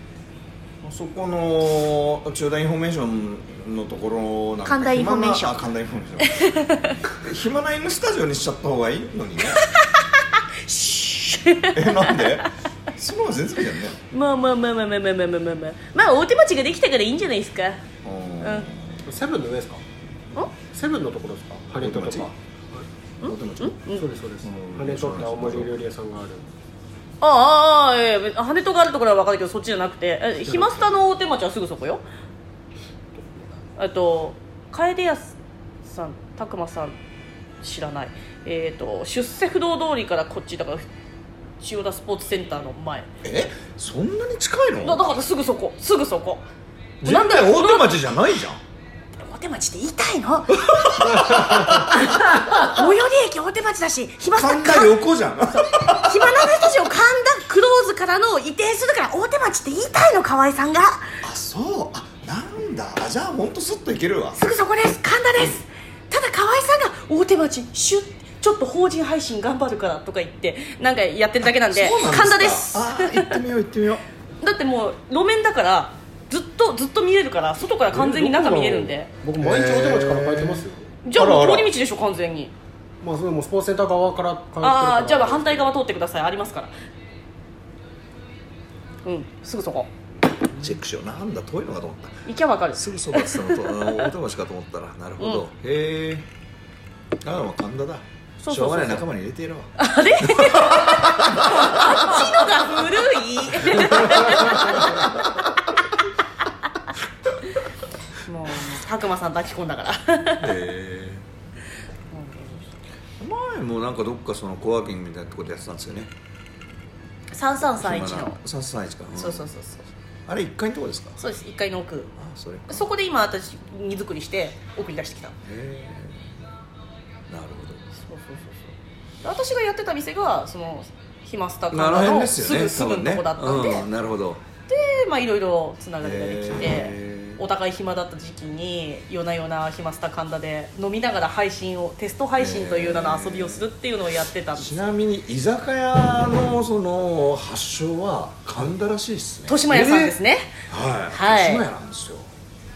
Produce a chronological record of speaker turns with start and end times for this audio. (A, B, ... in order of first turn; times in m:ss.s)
0:00.8-0:09.6 A
0:04.6-0:05.6 B
0:06.2-0:07.0 B
0:09.6-0:12.4 B
0:11.7-0:14.0 A
0:14.1-0:17.8 B
0:18.0-0:19.0 A
0:18.4-0:18.7 B
0:19.0-0:19.8 C
0:20.6-0:22.8 C
0:21.8-0:22.4 A
0:23.2-0:24.0 B
0:23.2-0:23.8 A
0:23.9-0:26.5 C
0:24.4-0:25.7 A
0:27.2-0:32.0 B
0:30.4-0:31.0 C
0:33.8-0:37.0 B
0:37.6-0:40.9 B
0:41.6-0:43.1 B
0:43.2-0:45.1 A
0:44.8-0:46.4 B
0:47.0-0:48.6 A
0:47.0-0:48.0 B
0:49.2-0:55.0 B
0:50.5-0:52.8 A
0:51.3-0:51.8 C
0:54.3-0:56.7 A
0:55.6-1:01.1 B
1:01.2-1:04.4 A
1:04.4-1:13.4 B
1:11.7-1:14.0 A
1:14.4-1:19.1 B
1:17.9-1:20.9 C
1:19.4-1:21.7 A
1:21.0-1:22.5 B
1:23.0-1:25.8 C
1:24.6-1:26.7 B
1:29.0-1:29.9 B
1:30.5-1:36.3 A
1:32.2-1:34.1 B
1:37.2-1:42.6 A
1:38.4-1:39.0 B
1:39.8-1:45.2 B
1:43.6-1:45.2 A
1:48.2-1:50.6 B
1:50.4-1:51.2 A
1:52.1-1:52.7 B
1:53.2-1:56.1 A
1:57.3-1:58.4 B
1:57.7-1:59.5 A
1:59.1-1:59.9 B
2:00.3-2:01.2 A
2:01.2-2:02.1 B
2:02.2-2:02.9 A
2:02.7-2:05.4 B
2:05.4-2:06.4 A
2:07.3-2:07.8 A
2:07.9-2:13.9 B
2:11.7-2:14.4 A
2:14.7-2:24.7 B
2:16.0-2:17.4 A
2:22.4-2:23.7 A
2:24.5-2:30.1 A
2:29.5-2:31.6 B
2:30.7-2:32.3 A